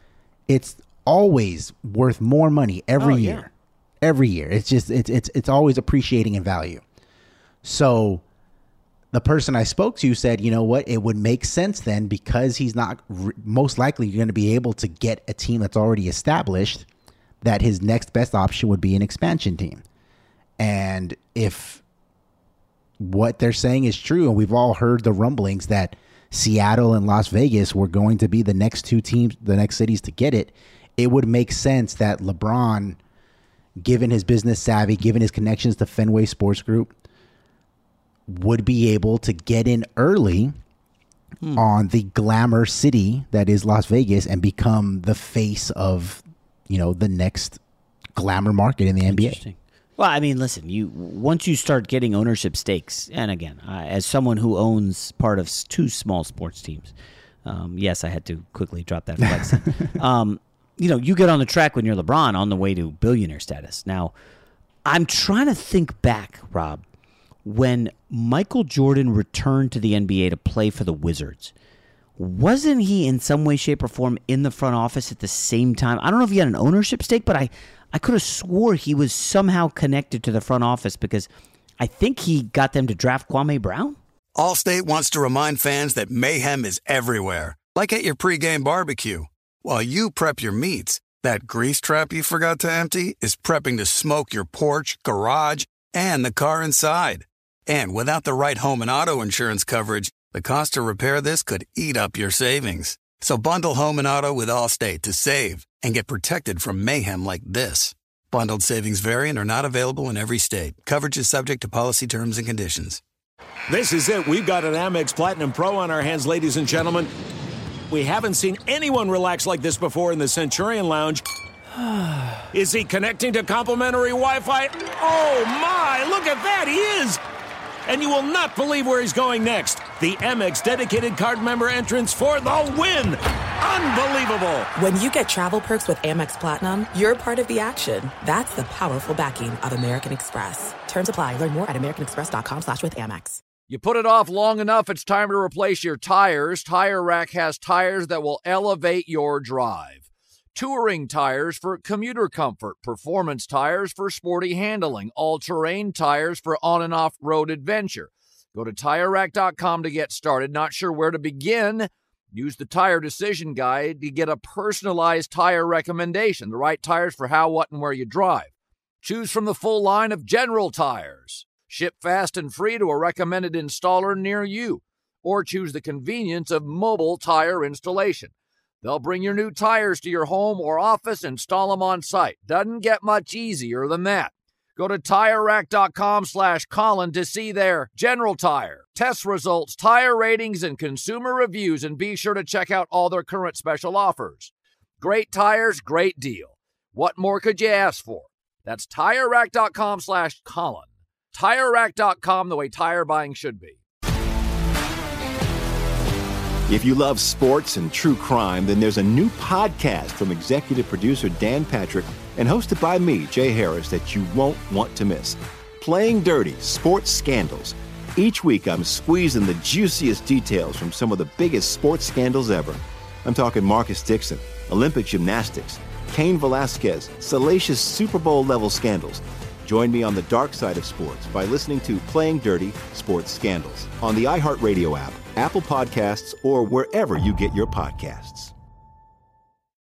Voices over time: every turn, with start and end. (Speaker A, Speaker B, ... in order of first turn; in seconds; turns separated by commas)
Speaker A: 0.5-3.5, Speaker B: 3.0-3.5, Speaker A: 4.0-6.8, Speaker A: 7.6-8.2, Speaker A: 9.1-16.9, Speaker A: 17.4-19.8, Speaker A: 20.6-21.8, Speaker A: 23.0-33.0, Speaker A: 33.8-36.9, Speaker A: 38.3-40.6, Speaker A: 41.5-47.6, Speaker A: 48.1-49.4, Speaker B: 49.1-56.9, Speaker B: 57.4-64.1, Speaker B: 64.8-66.8, Speaker B: 67.4-71.5, Speaker B: 72.2-81.3, Speaker B: 81.8-84.0, Speaker C: 84.3-113.0, Speaker D: 113.7-117.1, Speaker D: 117.9-121.2, Speaker D: 122.5-127.2, Speaker D: 127.8-134.7, Speaker E: 134.8-143.4, Speaker F: 143.7-150.0, Speaker F: 150.5-168.5, Speaker F: 169.0-203.8, Speaker G: 206.7-238.5